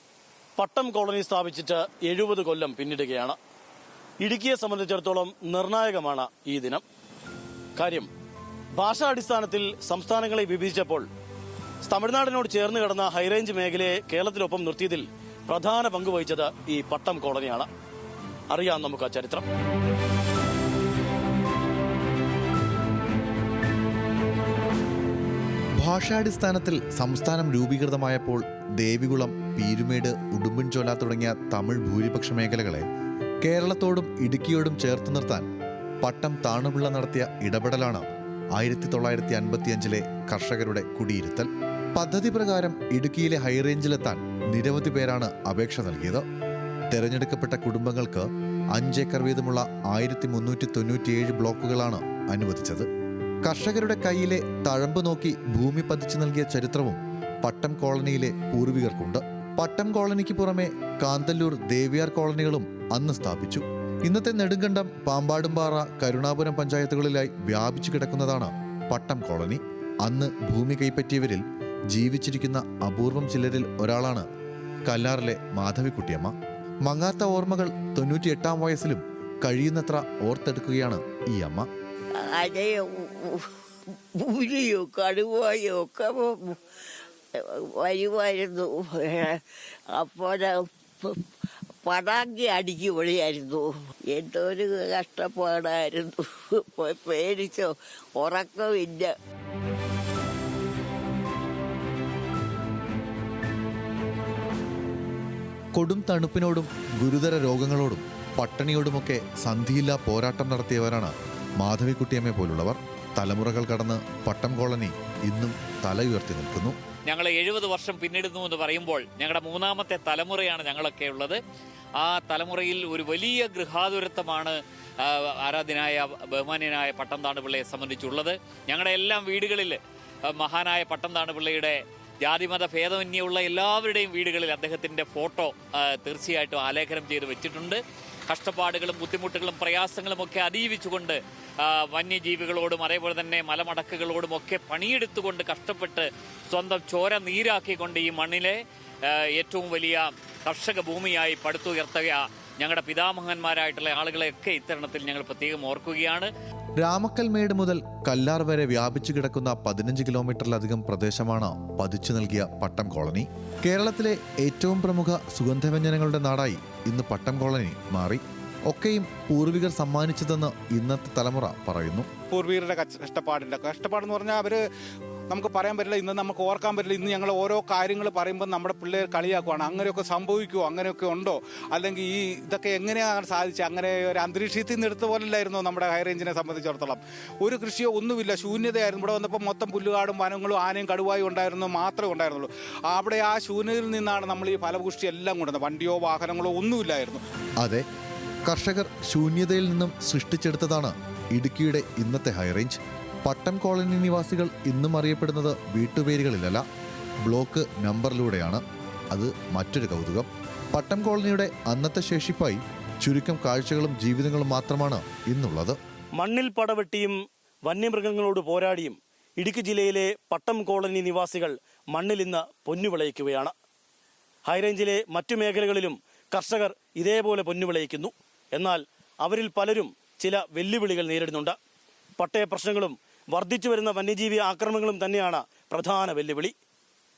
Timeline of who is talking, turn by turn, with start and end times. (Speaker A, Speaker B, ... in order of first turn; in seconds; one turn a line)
Speaker A: 0.6-3.4
Speaker A: 4.2-6.8
Speaker A: 7.8-8.1
Speaker A: 8.8-11.1
Speaker A: 11.8-17.7
Speaker A: 18.5-19.4
Speaker B: 25.8-32.9
Speaker B: 33.4-35.5
Speaker B: 36.0-46.2
Speaker B: 46.9-52.9
Speaker B: 53.4-74.3
Speaker B: 74.9-81.7
Speaker C: 82.2-83.5
Speaker C: 84.2-86.6
Speaker C: 87.4-89.4
Speaker C: 89.9-91.2
Speaker C: 91.8-99.1
Speaker B: 105.7-116.8
Speaker D: 117.1-121.4
Speaker D: 122.0-156.3
Speaker B: 156.8-172.1
Speaker E: 172.3-174.6
Speaker E: 175.3-197.2
Speaker B: 198.5-206.6
Speaker B: 207.2-215.8
Speaker A: 216.2-223.5
Speaker A: 224.5-231.6
Speaker A: 232.2-236.5